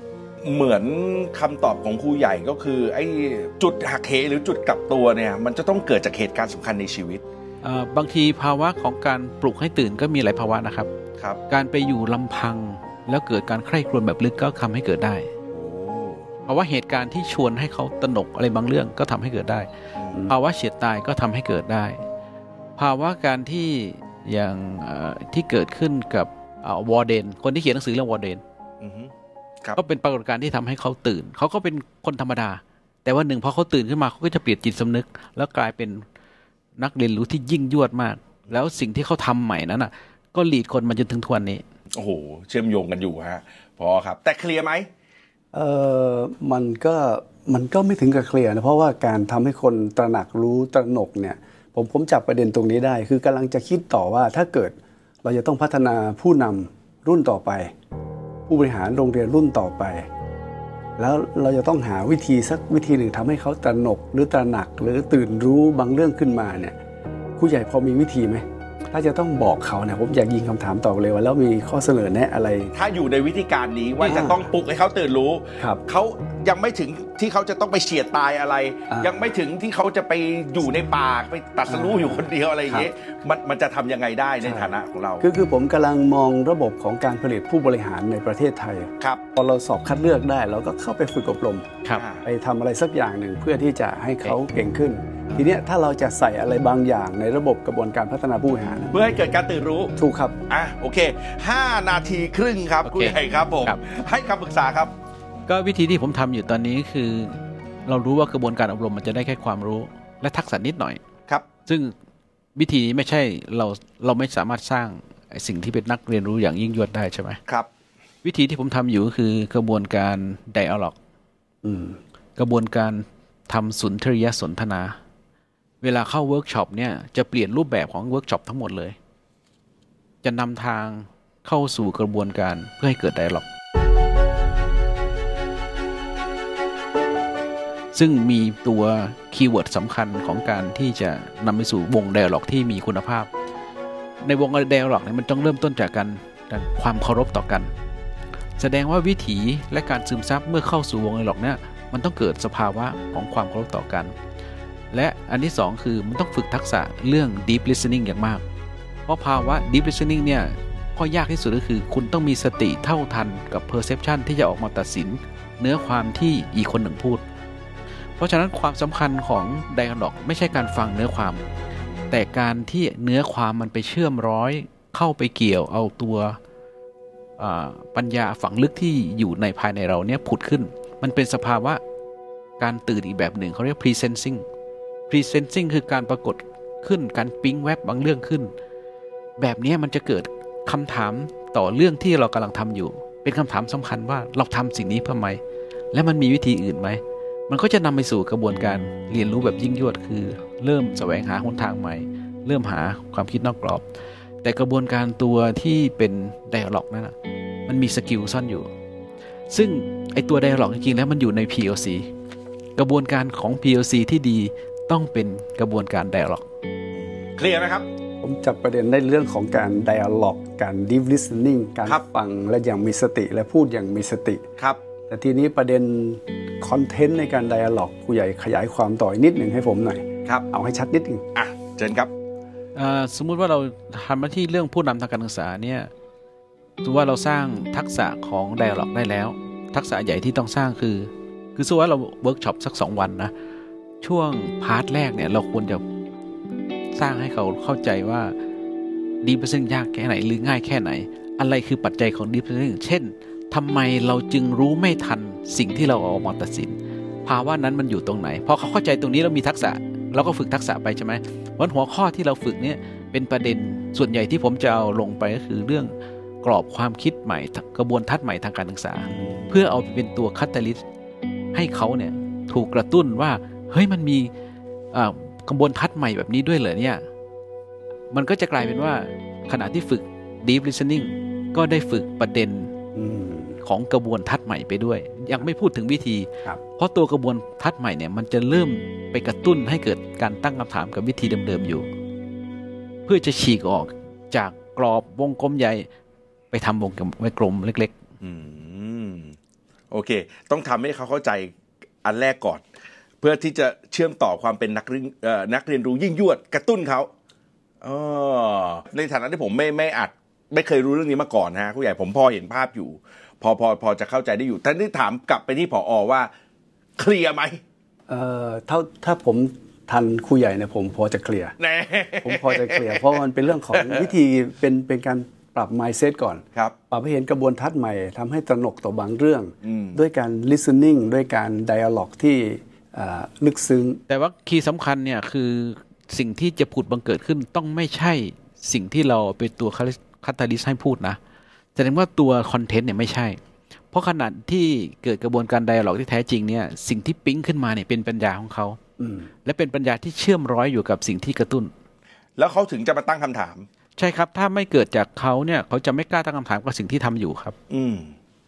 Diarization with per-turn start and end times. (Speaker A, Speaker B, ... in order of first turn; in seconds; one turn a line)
Speaker A: 0.4-7.2
Speaker B: 7.6-10.9
Speaker B: 11.5-15.3
Speaker A: 15.5-16.3
Speaker B: 16.5-19.7
Speaker B: 20.2-22.0
Speaker B: 22.8-28.4
Speaker A: 28.8-29.1
Speaker B: 29.8-36.0
Speaker B: 36.8-41.6
Speaker A: 42.0-44.9
Speaker C: 45.5-57.7
Speaker C: 58.5-60.1
Speaker C: 61.0-66.8
Speaker C: 67.4-72.7
Speaker A: 72.7-85.3
Speaker C: 74.0-74.5
Speaker C: 78.9-79.3
Speaker C: 81.7-82.9
Speaker C: 84.4-91.7
Speaker A: 92.0-92.3
Speaker C: 92.2-99.1
Speaker A: 98.9-99.9
Speaker C: 100.0-100.4
Speaker A: 100.5-104.9
Speaker B: 102.8-103.8
Speaker B: 105.5-111.0
Speaker B: 111.7-111.9
Speaker B: 112.6-117.4
Speaker B: 118.2-121.0
Speaker C: 121.6-122.0
Speaker B: 122.4-125.0
Speaker B: 125.8-129.0
Speaker B: 130.2-133.5
Speaker B: 137.9-143.3
Speaker B: 144.2-147.7
Speaker B: 148.6-154.2
Speaker B: 154.9-158.4
Speaker B: 159.1-167.2
Speaker B: 168.2-171.4
Speaker B: 172.1-176.4
Speaker B: 177.4-181.8
Speaker B: 182.6-184.4
Speaker B: 185.1-188.5
Speaker B: 189.4-195.4
Speaker B: 195.9-203.8
Speaker B: 204.4-207.2
Speaker B: 207.7-208.7
Speaker B: 209.5-212.1
Speaker B: 212.8-216.4
Speaker A: 216.9-217.9
Speaker C: 218.2-224.4
Speaker C: 225.1-231.2
Speaker A: 231.3-232.1
Speaker B: 232.8-235.9
Speaker B: 236.8-243.3
Speaker B: 244.0-245.8
Speaker B: 246.9-248.3
Speaker B: 249.2-270.8
Speaker C: 269.1-269.6
Speaker B: 271.5-274.3
Speaker B: 274.9-277.0
Speaker B: 278.1-282.7
Speaker C: 282.9-283.6
Speaker B: 283.6-291.9
Speaker B: 293.1-295.9
Speaker B: 296.5-297.9
Speaker A: 298.2-299.4
Speaker A: 299.9-302.6
Speaker A: 303.2-307.1
Speaker A: 307.8-316.3
Speaker A: 317.0-317.6
Speaker C: 318.1-321.6
Speaker A: 321.6-323.2
Speaker C: 322.2-334.0
Speaker A: 323.7-324.1
Speaker A: 329.6-330.0
Speaker B: 334.1-341.2
Speaker B: 341.8-343.4
Speaker B: 343.9-348.8
Speaker C: 349.0-349.3
Speaker B: 349.4-351.7
Speaker A: 352.4-353.7
Speaker B: 354.0-357.6
Speaker A: 357.7-358.1